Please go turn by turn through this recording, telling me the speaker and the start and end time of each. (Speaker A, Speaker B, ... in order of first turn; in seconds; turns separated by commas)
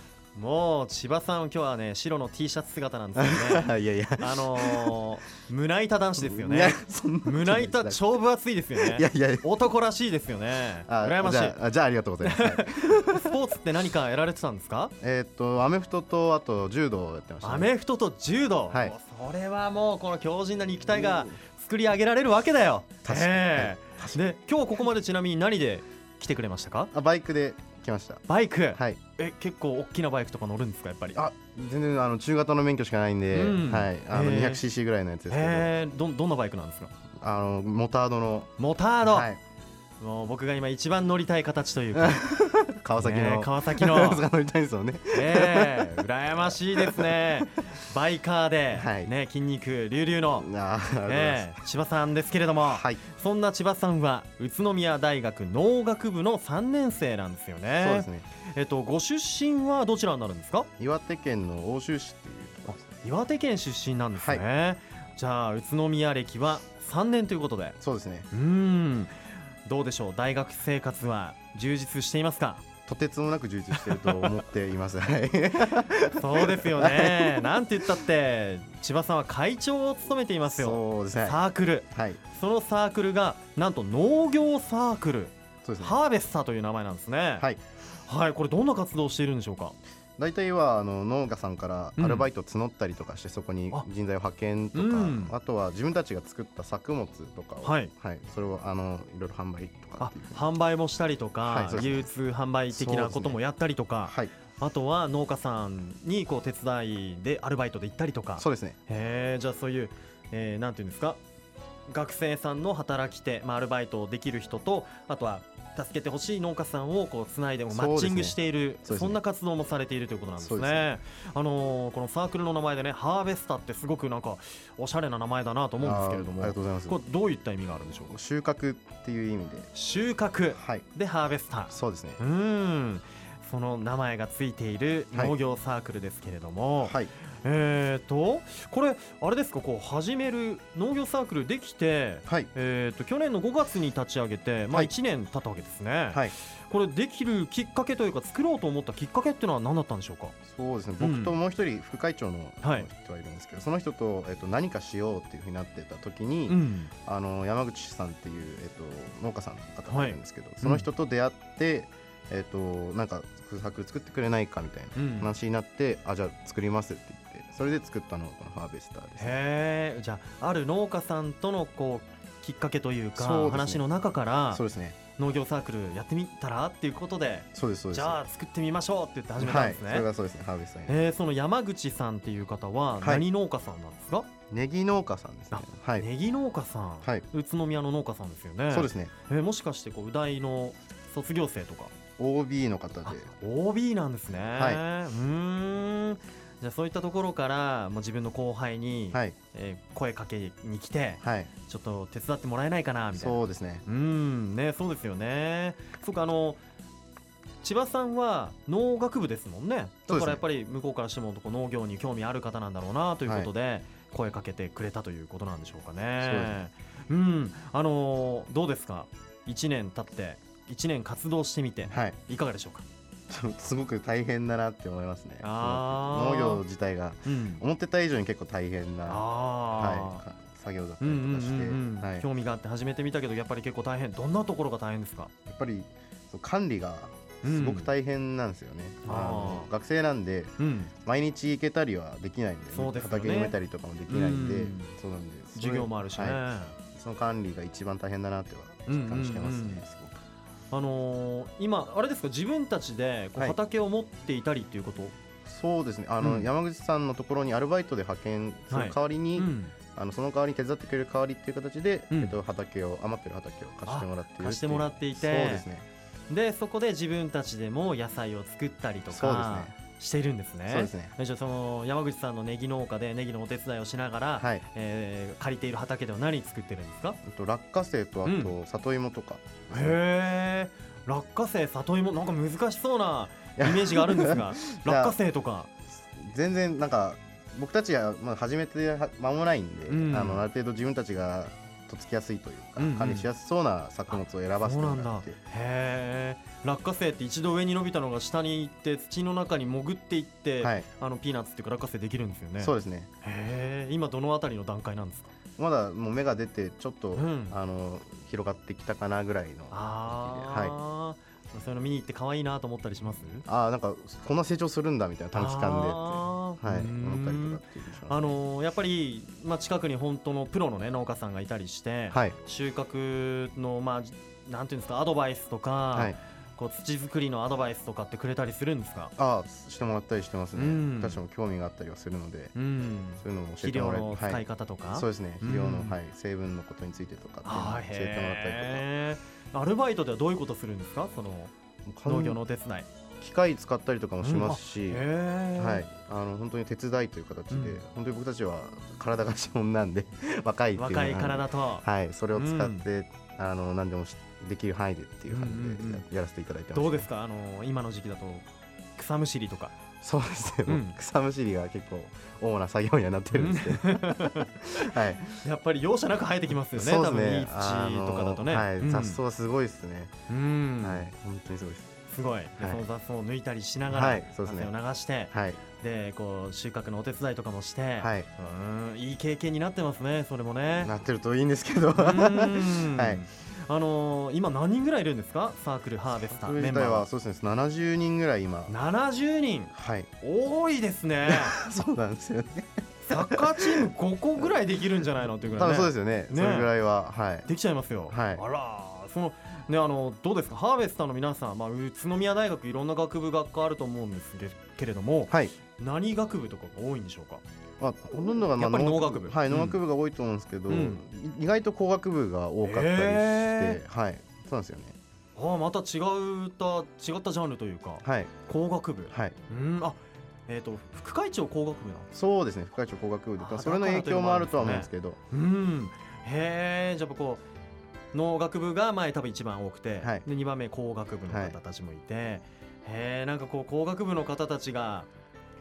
Speaker A: 0.3-11.6, Speaker B: 3.1-5.0, Speaker B: 6.2-8.0, Speaker B: 8.8-9.5, Speaker B: 10.8-13.4, Speaker A: 12.2-14.9, Speaker B: 15.0-17.7, Speaker A: 17.4-26.9, Speaker B: 18.7-18.9, Speaker B: 20.9-21.4, Speaker B: 23.0-24.2, Speaker B: 26.9-29.0, Speaker A: 28.3-31.2, Speaker B: 31.1-35.7, Speaker A: 33.3-34.6, Speaker A: 35.3-36.9, Speaker B: 37.2-38.5, Speaker A: 38.6-39.3, Speaker B: 39.0-39.4, Speaker A: 40.0-42.2, Speaker B: 41.9-47.4, Speaker A: 43.0-44.2, Speaker A: 45.1-50.5, Speaker B: 48.7-49.1, Speaker B: 50.3-51.6, Speaker A: 51.0-60.7, Speaker B: 52.6-53.0, Speaker B: 57.7-58.2, Speaker B: 60.8-62.9, Speaker A: 62.8-67.8, Speaker B: 64.1-64.4, Speaker B: 67.8-68.3, Speaker A: 68.3-72.6, Speaker B: 72.8-77.7, Speaker A: 73.7-74.3, Speaker A: 76.2-87.5, Speaker B: 80.5-82.2, Speaker B: 85.6-86.0, Speaker A: 88.0-89.8, Speaker B: 90.2-100.4, Speaker A: 92.0-92.3, Speaker A: 94.7-95.3, Speaker A: 97.6-97.9, Speaker A: 100.0-111.2, Speaker B: 101.4-102.1, Speaker B: 102.7-103.4, Speaker B: 104.0-104.3, Speaker B: 108.4-108.8, Speaker A: 111.9-128.2, Speaker B: 117.7-119.2, Speaker B: 120.4-120.9, Speaker B: 125.8-127.0, Speaker B: 128.1-129.7, Speaker A: 129.7-150.3, Speaker B: 130.5-130.8, Speaker B: 131.7-132.2, Speaker B: 136.8-137.1, Speaker B: 150.4-169.4, Speaker A: 151.0-151.3, Speaker A: 152.6-152.9, Speaker A: 156.5-156.9, Speaker A: 159.9-160.8, Speaker A: 164.9-165.3, Speaker A: 169.2-174.6, Speaker B: 173.2-173.8, Speaker B: 174.5-175.0, Speaker A: 175.2-180.1, Speaker B: 177.5-178.2, Speaker B: 179.4-181.0, Speaker A: 180.9-184.3, Speaker B: 183.0-183.2, Speaker B: 184.5-186.1, Speaker A: 185.5-191.9, Speaker B: 188.7-189.1, Speaker B: 192.2-193.3, Speaker A: 193.1-206.6, Speaker B: 194.5-194.8, Speaker B: 201.2-201.5, Speaker B: 203.1-203.8, Speaker A: 207.6-222.8, Speaker B: 210.1-210.4, Speaker B: 216.2-216.6, Speaker B: 221.9-222.2, Speaker B: 223.3-232.2, Speaker A: 225.4-226.6, Speaker A: 227.2-227.6, Speaker A: 229.1-230.2, Speaker A: 231.0-235.3, Speaker B: 235.4-246.4, Speaker A: 237.4-237.9, Speaker A: 239.0-239.7, Speaker A: 240.6-240.9, Speaker A: 242.7-243.5, Speaker A: 244.1-244.9, Speaker A: 245.5-246.8, Speaker B: 246.9-250.1, Speaker A: 248.9-249.8, Speaker A: 250.7-255.1, Speaker B: 255.4-265.8, Speaker A: 256.2-256.5, Speaker A: 258.7-259.7, Speaker A: 262.1-262.4, Speaker A: 263.9-265.6, Speaker A: 266.3-277.2, Speaker B: 269.1-269.7, Speaker B: 270.7-271.1, Speaker B: 274.4-274.6, Speaker B: 277.2-280.0, Speaker A: 278.2-278.5, Speaker A: 279.7-285.7, Speaker B: 283.6-285.1, Speaker B: 285.9-295.4, Speaker A: 289.9-290.4, Speaker A: 292.8-293.3, Speaker A: 294.1-305.3, Speaker B: 300.6-300.9, Speaker B: 302.6-303.1, Speaker B: 305.6-310.8, Speaker A: 307.1-307.6, Speaker A: 309.7-313.4, Speaker B: 313.4-318.4, Speaker A: 315.3-329.1, Speaker B: 322.1-322.4, Speaker B: 329.2-332.5, Speaker A: 330.5-331.2, Speaker A: 332.5-336.0, Speaker B: 333.2-338.9, Speaker A: 337.4-341.5, Speaker B: 341.9-342.4, Speaker A: 342.0-342.9, Speaker B: 343.2-345.1, Speaker A: 344.2-345.9, Speaker B: 345.6-357.1, Speaker A: 347.5-347.8, Speaker A: 350.7-352.8, Speaker A: 355.3-356.0, Speaker A: 356.7-358.4, Speaker A: 359.0-359.7, Speaker B: 360.0-365.3, Speaker A: 360.7-360.9, Speaker A: 363.3-369.2, Speaker B: 366.7-370.1, Speaker A: 370.3-371.1, Speaker B: 370.8-371.9, Speaker A: 372.1-380.9, Speaker B: 372.6-372.8, Speaker B: 373.9-374.7, Speaker B: 375.3-375.6, Speaker B: 378.0-378.3, Speaker B: 380.7-383.2, Speaker A: 381.9-387.1, Speaker B: 386.2-388.7, Speaker A: 388.7-391.5, Speaker B: 389.7-390.1, Speaker B: 391.3-393.9, Speaker A: 393.1-396.7, Speaker B: 395.5-397.5, Speaker A: 397.4-407.4, Speaker B: 398.1-398.4, Speaker B: 407.8-414.9, Speaker A: 408.6-409.8, Speaker A: 410.7-411.0, Speaker A: 412.6-413.8, Speaker A: 415.4-422.1, Speaker B: 418.0-418.3, Speaker B: 419.1-419.4, Speaker B: 422.1-425.2, Speaker A: 423.4-427.4, Speaker A: 428.1-435.1, Speaker B: 431.3-431.6